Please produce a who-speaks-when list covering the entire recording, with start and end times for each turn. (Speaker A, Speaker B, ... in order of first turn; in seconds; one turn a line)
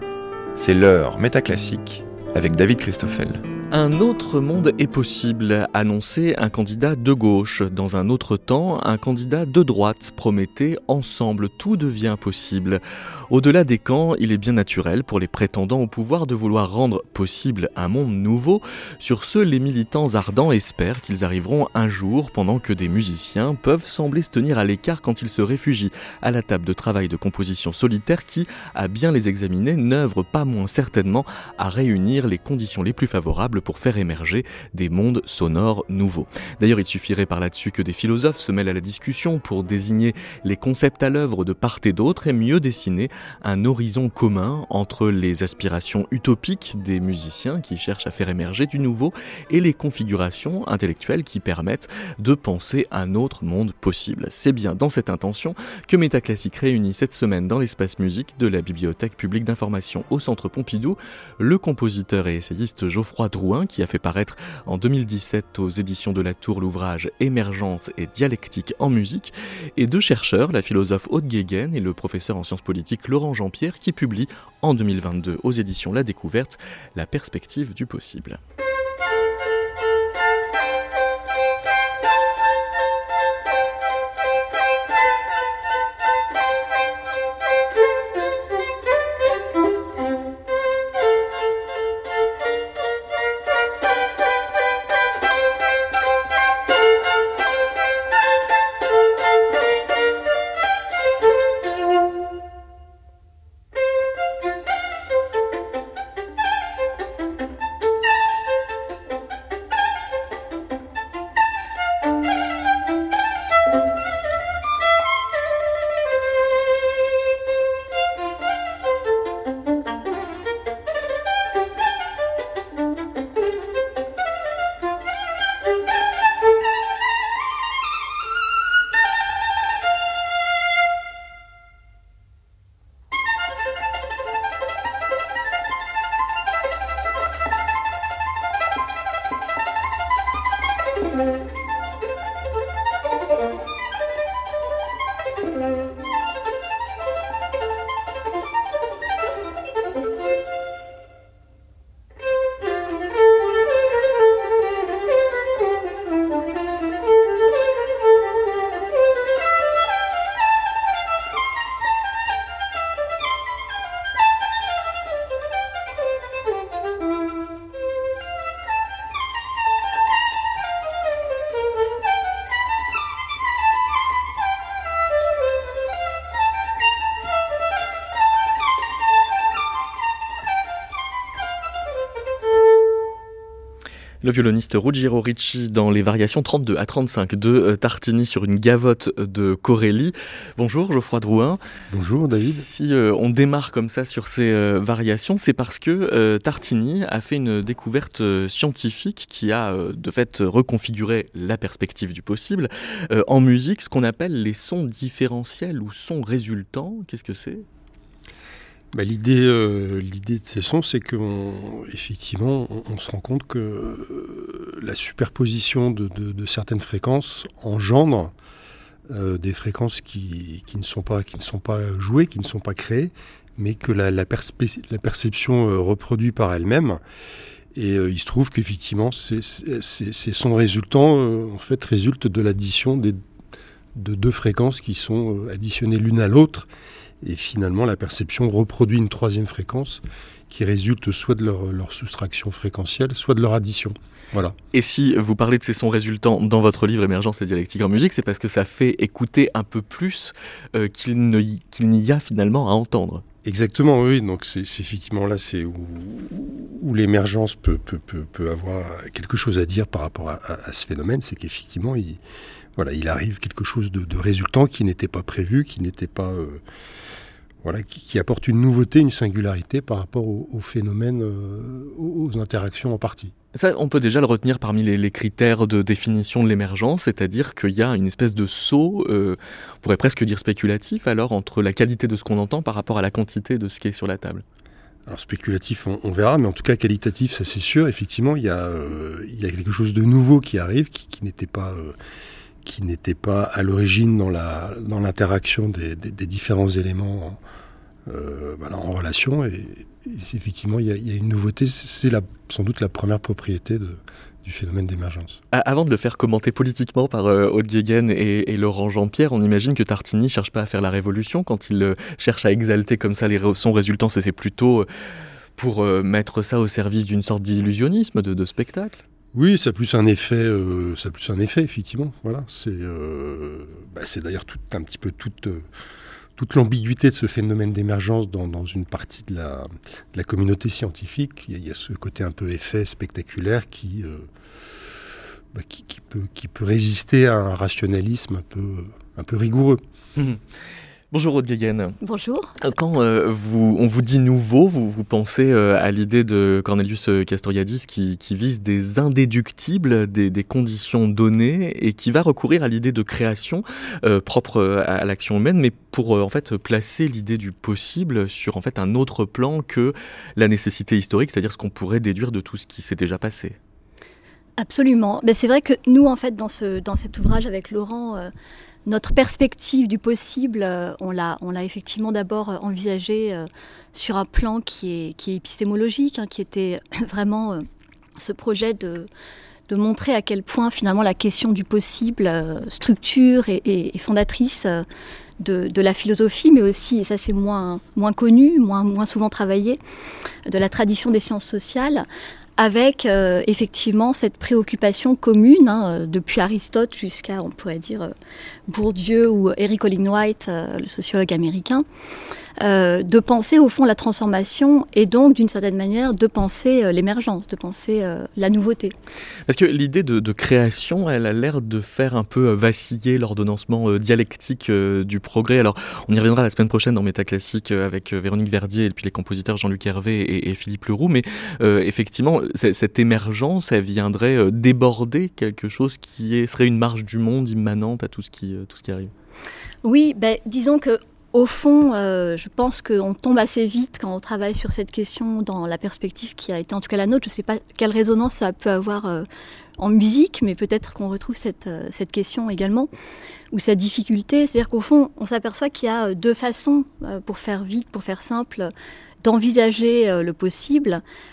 Speaker A: 0.5-3.4
Speaker B: 3.7-78.4
Speaker B: 184.2-191.6
Speaker C: 191.9-192.7
Speaker B: 192.3-207.7
Speaker C: 208.9-218.3
Speaker C: 219.1-227.0
Speaker C: 227.7-233.2
Speaker C: 233.9-236.7
Speaker C: 237.2-244.6
Speaker B: 244.7-253.2
Speaker C: 253.4-262.2
Speaker C: 262.8-266.6
Speaker C: 267.6-273.3
Speaker B: 273.5-284.4
Speaker C: 285.1-292.0
Speaker C: 292.6-297.4
Speaker C: 298.1-305.4
Speaker B: 305.5-314.9
Speaker B: 315.6-319.0
Speaker C: 319.3-325.7
Speaker C: 326.4-339.8
Speaker B: 340.1-342.0
Speaker D: 342.0-342.5
Speaker B: 342.6-363.6
Speaker D: 364.6-368.3
Speaker D: 368.9-377.6
Speaker D: 378.2-379.1
Speaker D: 379.7-384.8
Speaker D: 385.4-389.8
Speaker D: 390.5-392.1
Speaker D: 392.6-398.1
Speaker D: 398.7-401.8
Speaker D: 402.6-408.9
Speaker B: 409.5-429.1
Speaker D: 429.8-439.3
Speaker D: 439.8-442.9
Speaker D: 443.5-448.7
Speaker D: 449.2-451.0